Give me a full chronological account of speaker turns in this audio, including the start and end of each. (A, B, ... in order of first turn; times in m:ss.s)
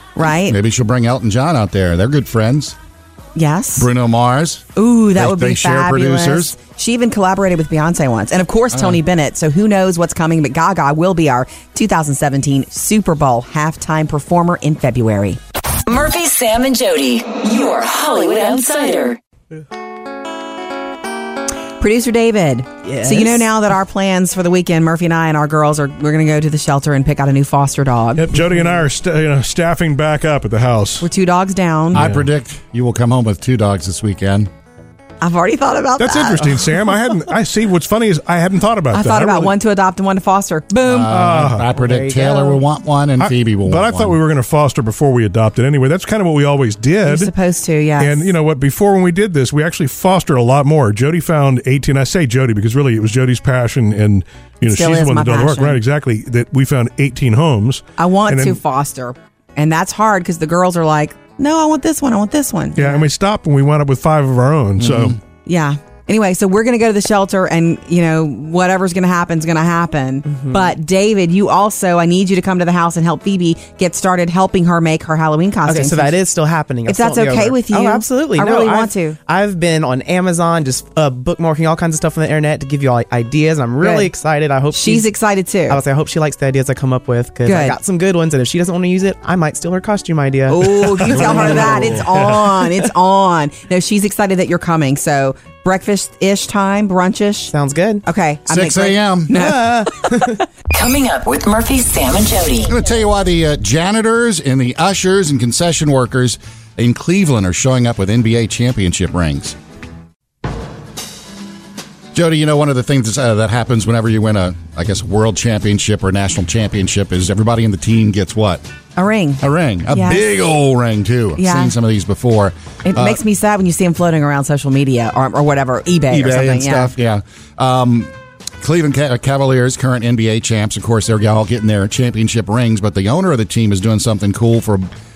0:00.2-0:00.6 A
0:00.2-0:02.8 B
0:03.3-0:03.9 A
0:03.8-0:06.5 B
0:04.8-0:15.4 A
0:08.7-0:09.0 B
0:15.9-0:19.2 C
0:21.8-0:28.4 A
0:22.8-0:23.4 D
0:28.2-0:31.0 E
0:31.0-0:32.1 A
0:31.9-0:34.5 B
0:31.9-0:32.3 E
0:35.2-0:36.7 A
0:36.0-0:39.5 E
0:38.9-0:41.2 A
0:40.8-0:44.2 B
0:41.1-0:41.7 E
0:41.6-0:42.6 D
0:43.2-0:47.3 E
0:47.0-0:48.3 A
0:48.0-0:58.6 E
0:54.6-0:55.8 A
0:58.0-1:03.1 A
1:02.8-1:05.2 E
1:04.8-1:05.2 B
1:05.4-1:16.2 A
1:10.2-1:10.7 D
1:15.6-1:25.1 D
1:16.8-1:19.2 A
1:23.8-1:24.1 A
1:24.7-1:25.8 A
1:25.7-1:32.0 D
1:27.4-1:27.8 A
1:30.5-1:40.4 A
1:37.5-1:38.0 D
1:38.5-1:39.4 B
1:39.3-1:40.4 D
1:40.7-1:42.7 C
1:42.7-1:49.6 B
1:52.1-1:58.6 B
1:59.0-2:00.2 A
1:59.4-2:03.2 B
2:01.4-2:01.7 A
2:02.8-2:06.9 A
2:06.1-2:14.9 B